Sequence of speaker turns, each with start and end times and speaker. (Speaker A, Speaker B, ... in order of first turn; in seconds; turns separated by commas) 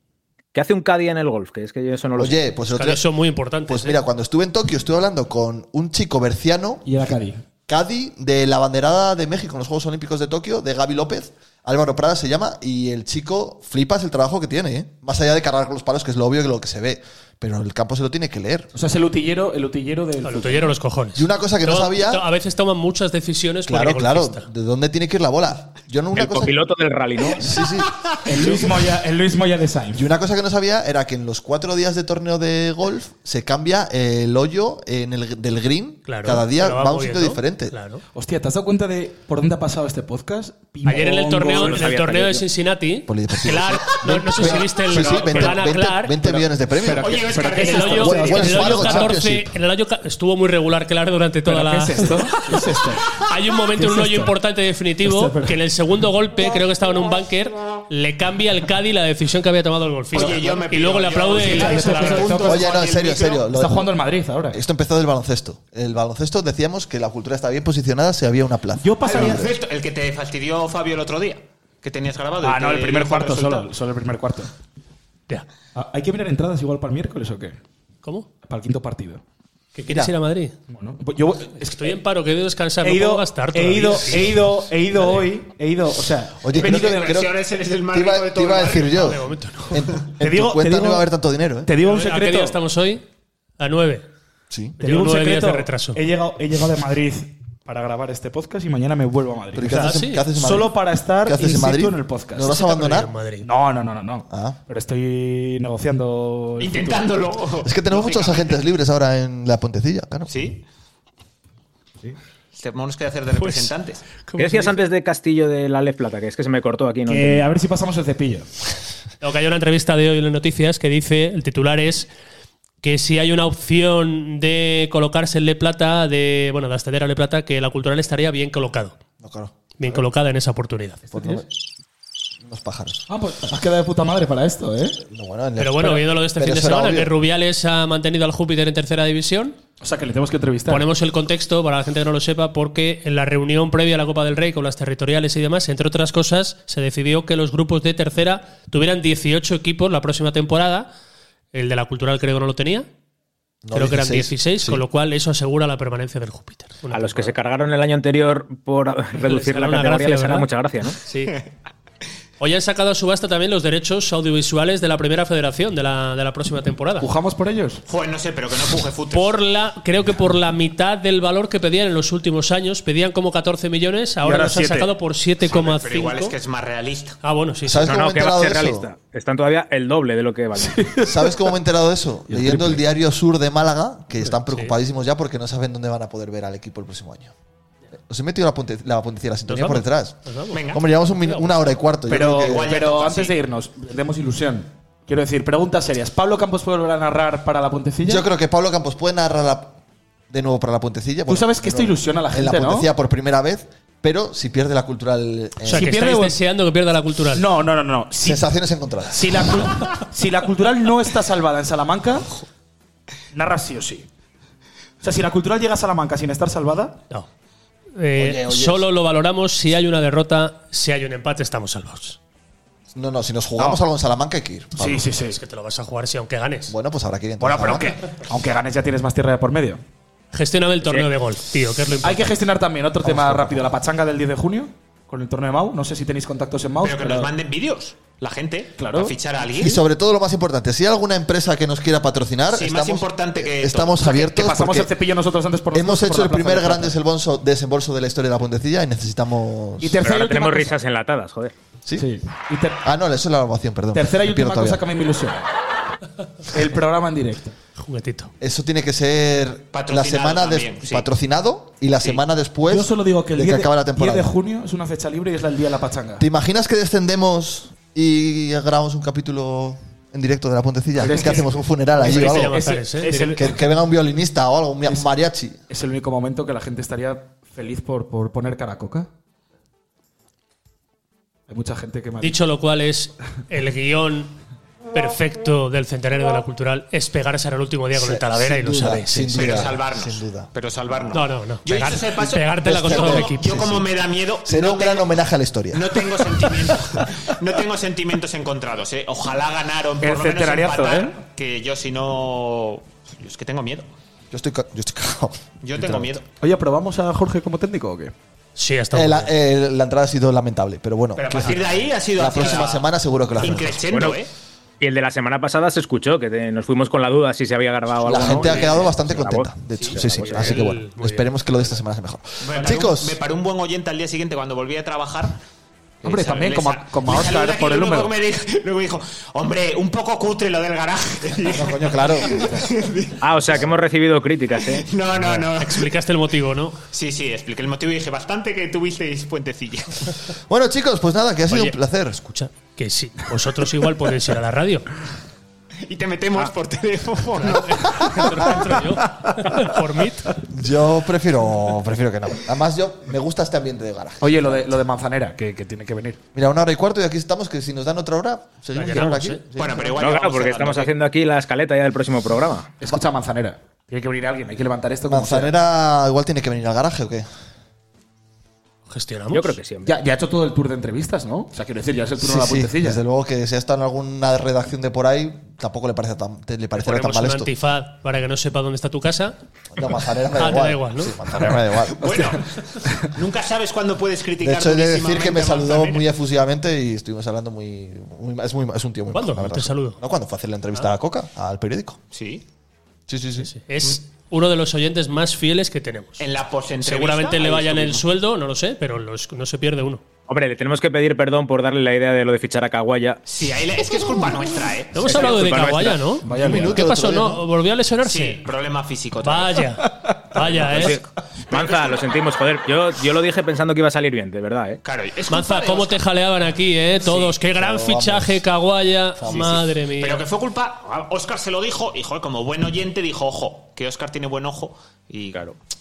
Speaker A: 0.5-2.4, Speaker B: 2.2-3.0, Speaker C: 2.7-4.0, Speaker B: 3.7-6.8, Speaker D: 6.8-7.4, Speaker B: 7.7-18.7, Speaker D: 18.8-20.7, Speaker C: 20.2-24.4, Speaker B: 21.1-22.3, Speaker B: 23.7-26.6, Speaker A: 26.1-27.6, Speaker B: 27.3-28.6, Speaker D: 28.2-30.1, Speaker B: 29.9-37.8, Speaker C: 36.1-38.0, Speaker D: 38.1-41.8, Speaker C: 40.8-46.3, Speaker A: 41.5-42.5, Speaker B: 43.1-47.3, Speaker D: 46.4-49.1, Speaker E: 47.0-48.7, Speaker C: 47.5-52.2, Speaker B: 48.0-49.5, Speaker D: 51.5-53.1, Speaker C: 53.2-62.4, Speaker D: 53.8-54.4, Speaker D: 55.0-55.6, Speaker E: 60.1-63.5, Speaker D: 61.4-62.7, Speaker B: 62.4-63.9, Speaker D: 63.5-64.6, Speaker B: 64.5-69.5, Speaker D: 68.8-69.5, Speaker E: 69.0-73.7, Speaker D: 72.4-74.5, Speaker D: 75.8-77.6, Speaker C: 78.0-78.3, Speaker D: 78.4-79.2, Speaker C: 79.8-80.6, Speaker B: 79.9-80.1, Speaker D: 80.7-82.0, Speaker C: 81.6-85.2, Speaker D: 82.8-87.2, Speaker B: 86.4-91.7, Speaker E: 86.5-89.2, Speaker C: 88.7-89.9, Speaker D: 90.2-91.1, Speaker D: 91.7-92.6, Speaker C: 91.8-93.0, Speaker C: 93.6-94.0, Speaker B: 94.5-94.8, Speaker C: 94.8-96.0, Speaker D: 94.8-102.6, Speaker B: 99.5-103.1, Speaker C: 99.7-100.3, Speaker C: 102.4-103.5, Speaker D: 103.5-107.0, Speaker B: 104.3-104.6, Speaker E: 106.6-108.6, Speaker B: 107.6-110.4, Speaker E: 110.3-110.6, Speaker E: 112.5-114.0, Speaker C: 113.4-113.7, Speaker C: 114.3-114.8, Speaker A: 114.4-117.5, Speaker D: 117.1-118.5, Speaker C: 119.2-122.1, Speaker C: 122.8-129.0, Speaker B: 129.2-129.6, Speaker C: 129.8-131.1, Speaker D: 131.1-131.4, Speaker B: 131.1-131.5, Speaker B: 132.4-133.0, Speaker D: 133.1-135.0, Speaker B: 135.0-137.1, Speaker C: 135.6-139.6, Speaker D: 139.8-140.9, Speaker C: 140.7-150.9, Speaker C: 151.5-152.9, Speaker B: 153.7-154.8, Speaker C: 153.7-157.3, Speaker A: 156.9-161.0, Speaker C: 159.2-160.5, Speaker C: 161.0-161.4, Speaker C: 162.4-167.1, Speaker D: 167.0-167.8, Speaker E: 167.9-169.3, Speaker C: 169.1-176.3, Speaker D: 174.2-174.9, Speaker E: 175.5-177.2, Speaker C: 177.2-177.9, Speaker B: 177.7-178.9, Speaker A: 177.8-180.9, Speaker D: 180.6-181.4, Speaker B: 181.0-187.3, Speaker D: 182.3-182.8, Speaker C: 184.4-184.8, Speaker B: 188.1-190.2, Speaker C: 189.5-191.6, Speaker E: 190.5-190.8, Speaker B: 190.7-192.8, Speaker D: 192.1-198.3, Speaker E: 192.4-193.4, Speaker B: 198.1-199.8, Speaker B: 200.3-206.0, Speaker D: 201.3-202.9, Speaker D: 205.7-206.4, Speaker C: 205.7-207.5, Speaker D: 207.3-208.4, Speaker B: 208.2-209.7, Speaker D: 209.1-212.3, Speaker D: 213.3-214.1, Speaker D: 215.0-217.0, Speaker C: 218.0-222.2, Speaker B: 218.2-218.8, Speaker B: 222.9-225.1, Speaker D: 224.8-225.4, Speaker C: 225.2-226.7, Speaker B: 226.7-228.0, Speaker D: 227.4-229.8, Speaker C: 230.3-232.4, Speaker D: 232.0-237.3, Speaker B: 233.0-233.7, Speaker E: 236.8-239.8, Speaker D: 238.8-239.2, Speaker B: 239.6-244.9, Speaker E: 242.5-244.2, Speaker D: 244.0-247.0, Speaker B: 245.7-250.1, Speaker D: 249.8-250.8, Speaker A: 250.0-251.5, Speaker D: 251.9-252.8, Speaker B: 252.8-254.8, Speaker D: 253.9-255.4, Speaker D: 256.5-257.6, Speaker C: 257.8-258.3, Speaker B: 258.4-264.3, Speaker E: 259.7-261.1, Speaker D: 262.7-266.2, Speaker B: 266.2-275.6, Speaker D: 271.0-273.7, Speaker C: 272.0-273.4, Speaker D: 275.7-279.1, Speaker D: 281.5-282.4, Speaker C: 282.2-284.4, Speaker C: 284.9-289.7, Speaker B: 287.9-291.2, Speaker E: 289.3-295.1, Speaker C: 291.1-293.7, Speaker B: 292.6-293.9, Speaker B: 294.4-297.1, Speaker E: 295.7-303.9, Speaker D: 300.0-301.2, Speaker B: 304.3-306.1, Speaker E: 305.6-306.3, Speaker D: 306.4-308.1, Speaker C: 308.6-309.3, Speaker B: 308.9-313.9, Speaker E: 311.2-314.3, Speaker A: 313.9-314.2, Speaker A: 314.8-320.5, Speaker B: 318.0-323.2, Speaker E: 318.2-318.9, Speaker E: 319.8-320.2, Speaker C: 320.2-321.6, Speaker E: 322.4-325.4, Speaker D: 322.6-322.9, Speaker D: 326.0-328.1, Speaker E: 326.0-333.2, Speaker B: 331.5-332.4, Speaker D: 332.3-332.6, Speaker A: 333.2-334.9, Speaker E: 334.8-335.9, Speaker B: 335.1-335.5, Speaker C: 335.6-336.8, Speaker E: 336.9-340.2, Speaker B: 340.5-342.2, Speaker C: 341.5-344.9, Speaker E: 345.9-348.3, Speaker C: 347.4-350.4, Speaker B: 350.5-354.8, Speaker D: 354.2-356.2, Speaker B: 356.4-360.0, Speaker C: 358.8-359.4, Speaker E: 359.6-360.9, Speaker A: 360.0-362.7, Speaker D: 362.8-365.5, Speaker B: 365.1-367.3, Speaker C: 368.9-369.6, Speaker A: 369.3-369.9, Speaker D: 369.9-373.0, Speaker B: 372.2-377.5, Speaker C: 376.8-379.4, Speaker B: 379.8-382.3, Speaker C: 380.4-381.2, Speaker D: 382.0-383.1, Speaker E: 382.0-386.1, Speaker B: 384.4-392.0, Speaker C: 389.1-390.0, Speaker E: 392.1-392.4, Speaker B: 393.1-393.5, Speaker C: 393.4-396.2, Speaker E: 396.2-398.0, Speaker C: 396.8-400.1, Speaker A: 400.3-403.2, Speaker E: 403.3-405.6, Speaker C: 404.9-408.4, Speaker A: 405.0-406.1, Speaker D: 406.2-406.9, Speaker B: 406.3-407.4, Speaker E: 408.0-409.6, Speaker C: 409.2-411.0, Speaker A: 410.4-414.8, Speaker E: 411.5-412.0, Speaker E: 414.8-416.0, Speaker C: 415.3-420.2, Speaker E: 417.1-417.3, Speaker B: 417.6-418.4, Speaker B: 419.2-419.6, Speaker E: 419.3-425.5